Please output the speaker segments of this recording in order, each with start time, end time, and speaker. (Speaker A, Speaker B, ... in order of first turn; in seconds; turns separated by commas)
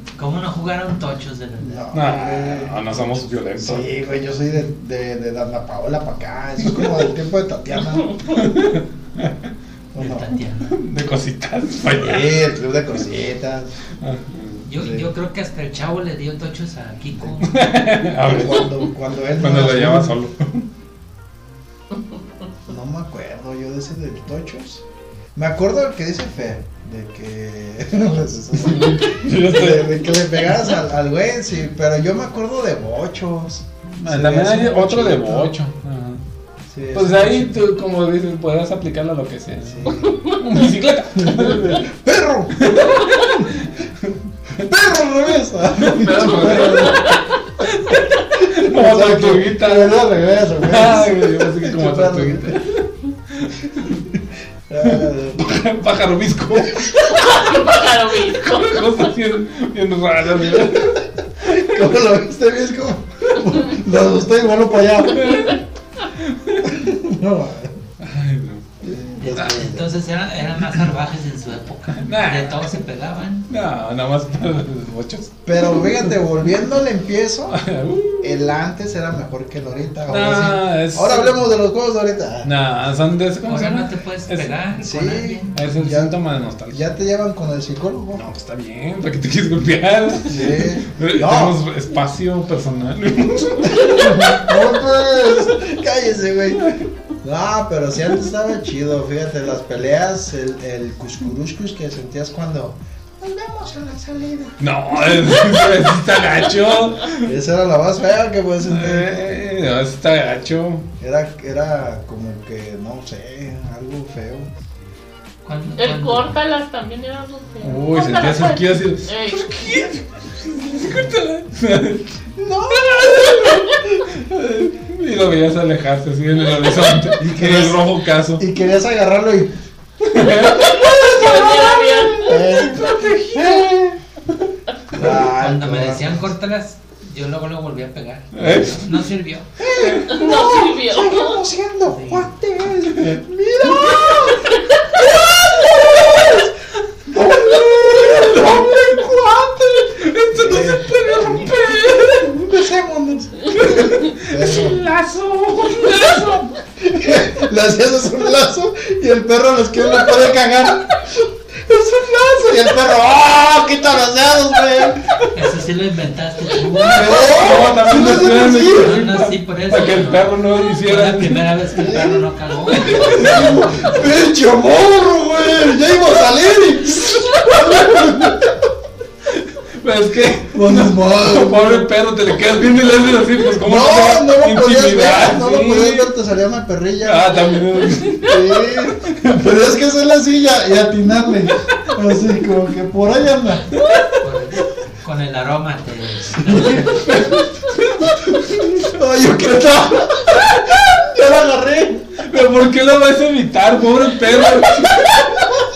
Speaker A: 0.2-1.9, Speaker B: 1.6-8.1, Speaker C: 1.9-3.9, Speaker C: 6.7-7.0, Speaker C: 8.3-9.5, Speaker B: 9.9-10.3, Speaker A: 10.0-10.8, Speaker C: 10.7-12.5, Speaker B: 11.8-13.7, Speaker C: 14.0-14.7, Speaker A: 14.7-17.7, Speaker B: 14.8-15.1, Speaker B: 17.3-20.2, Speaker C: 17.4-20.7, Speaker B: 22.7-24.8, Speaker B: 25.4-35.5, Speaker C: 28.6-30.1, Speaker C: 33.9-36.2, Speaker B: 36.7-37.5, Speaker C: 36.9-41.9, Speaker B: 39.6-40.2, Speaker D: 40.0-40.4, Speaker B: 41.2-43.3, Speaker C: 42.5-44.7, Speaker B: 44.6-47.1, Speaker C: 45.8-54.0, Speaker B: 48.5-52.5, Speaker B: 54.7-55.6, Speaker C: 54.8-57.6, Speaker D: 57.1-59.1, Speaker C: 58.4-61.0, Speaker B: 60.5-65.3, Speaker C: 65.1-66.8, Speaker D: 65.2-65.5, Speaker B: 66.7-67.8, Speaker C: 68.0-68.7, Speaker B: 68.8-69.9, Speaker A: 69.2-73.5, Speaker C: 72.0-72.8, Speaker C: 73.5-76.0, Speaker B: 75.5-77.6, Speaker C: 77.5-78.5, Speaker B: 78.2-82.5, Speaker C: 80.1-81.4, Speaker C: 82.4-84.5, Speaker A: 83.5-85.6, Speaker B: 84.8-86.2, Speaker C: 85.5-86.8, Speaker B: 86.7-88.3, Speaker C: 88.1-94.4, Speaker B: 90.3-91.6, Speaker B: 93.6-104.6, Speaker C: 104.6-107.3, Speaker B: 107.2-109.3, Speaker C: 108.7-110.9, Speaker B: 111.0-114.5, Speaker A: 115.5-116.3, Speaker D: 115.8-119.6, Speaker C: 117.6-122.1, Speaker B: 122.4-124.0, Speaker C: 123.0-128.4, Speaker B: 127.2-127.8, Speaker B: 128.4-129.5, Speaker C: 130.0-134.4, Speaker D: 130.4-132.4, Speaker B: 130.8-131.6, Speaker B: 132.2-134.0, Speaker B: 134.9-136.2, Speaker A: 135.0-139.5, Speaker C: 138.3-139.0, Speaker B: 139.6-144.5, Speaker C: 139.8-140.1, Speaker D: 140.1-141.4, Speaker A: 141.9-142.3, Speaker C: 143.7-144.3, Speaker C: 145.0-146.5, Speaker B: 145.2-146.5, Speaker B: 147.1-149.6, Speaker C: 147.1-152.3, Speaker B: 150.3-154.8, Speaker C: 153.5-156.5, Speaker B: 156.8-165.0, Speaker A: 165.3-167.2, Speaker B: 166.8-169.1, Speaker C: 167.0-171.6, Speaker A: 168.7-174.2, Speaker B: 171.8-178.5, Speaker C: 173.2-173.6, Speaker C: 179.3-186.1, Speaker B: 180.5-181.9, Speaker B: 183.6-187.4, Speaker C: 187.0-188.4, Speaker B: 188.2-193.7, Speaker C: 193.8-194.1, Speaker A: 194.2-197.2, Speaker C: 196.8-198.8, Speaker B: 198.3-202.1, Speaker C: 202.2-205.5